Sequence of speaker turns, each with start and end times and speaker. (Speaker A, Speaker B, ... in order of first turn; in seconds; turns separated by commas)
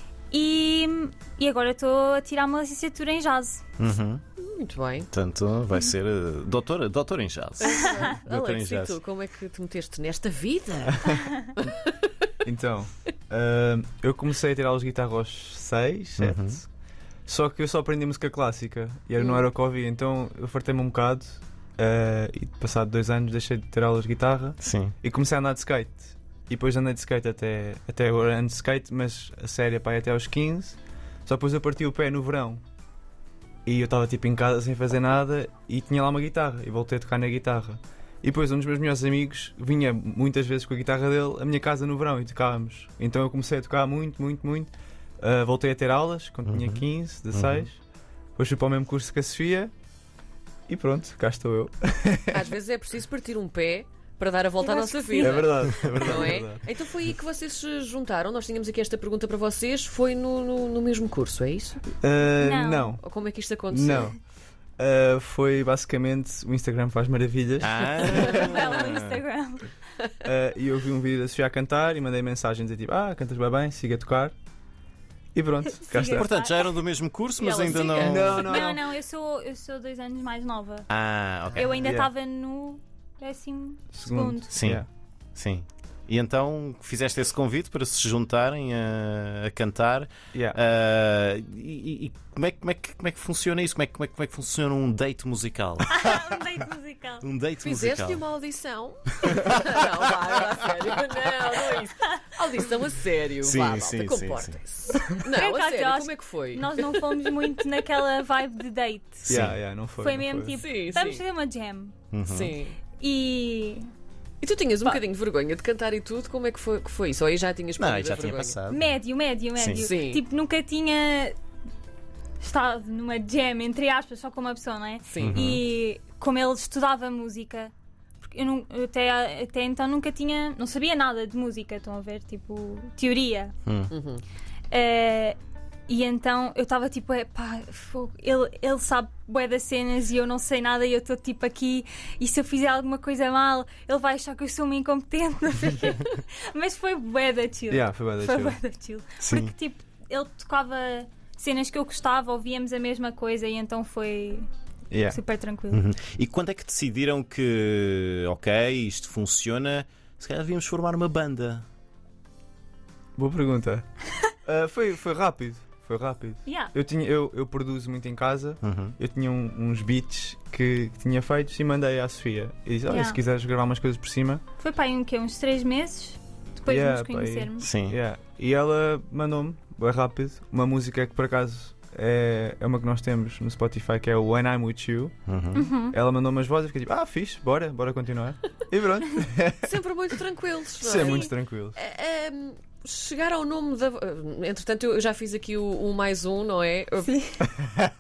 Speaker A: 0.3-3.6, Speaker B: 3.8-4.2, Speaker C: 4.4-5.1, Speaker B: 5.1-9.0, Speaker C: 7.6-11.7, Speaker D: 12.4-16.7, Speaker B: 16.2-16.6, Speaker D: 17.3-32.6, Speaker B: 24.6-24.9, Speaker D: 33.7-47.8, Speaker B: 46.5-47.7, Speaker D: 48.4-49.7, Speaker D: 50.7-52.5, Speaker C: 52.3-61.8, Speaker A: 54.6-55.5, Speaker D: 55.2-56.6, Speaker B: 55.7-56.2, Speaker D: 62.0-63.0, Speaker A: 62.4-62.9, Speaker C: 63.0-64.1, Speaker D: 63.7-64.2, Speaker D: 64.8-68.5, Speaker B: 67.6-69.2, Speaker A: 68.0-69.7, Speaker D: 70.2-74.3, Speaker D: 75.3-76.3, Speaker A: 75.8-76.5, Speaker B: 76.0-78.5, Speaker C: 77.4-78.6, Speaker D: 78.0-78.9, Speaker A: 78.4-80.9, Speaker B: 80.9-81.8, Speaker A: 81.5-84.5, Speaker D: 81.8-82.1, Speaker D: 83.9-84.9, Speaker B: 84.5-84.8, Speaker B: 85.3-96.2, Speaker D: 90.3-90.6, Speaker A: 95.9-97.2, Speaker B: 97.2-98.2, Speaker C: 97.6-107.0, Speaker B: 103.4-104.6, Speaker A: 105.2-109.3, Speaker D: 109.3-110.6, Speaker B: 109.3-109.6, Speaker A: 110.0-112.0, Speaker C: 110.5-111.2, Speaker B: 112.1-112.5, Speaker C: 112.3-112.8, Speaker A: 113.0-113.9, Speaker C: 114.4-118.6, Speaker B: 117.8-118.9, Speaker A: 118.7-121.4, Speaker B: 119.6-119.9, Speaker C: 119.8-120.2, Speaker A: 122.4-133.6, Speaker C: 125.1-125.4, Speaker B: 125.2-125.6, Speaker B: 133.7-133.9, Speaker C: 133.9-134.2, Speaker A: 134.7-135.4, Speaker A: 135.9-154.5, Speaker D: 147.7-148.6, Speaker B: 149.2-149.5, Speaker D: 154.9-155.2, Speaker A: 155.1-155.8, Speaker B: 155.7-161.7, Speaker D: 163.2-163.9, Speaker D: 164.4-174.4, Speaker A: 166.5-166.7, Speaker B: 168.6-169.0, Speaker A: 172.9-173.2, Speaker A: 174.6-177.7, Speaker D: 176.7-185.2, Speaker B: 177.6-178.0, Speaker B: 185.3-185.7, Speaker A: 185.6-186.0, Speaker D: 185.8-189.7, Speaker C: 189.7-197.1, Speaker D: 190.8-191.8, Speaker A: 197.1-197.5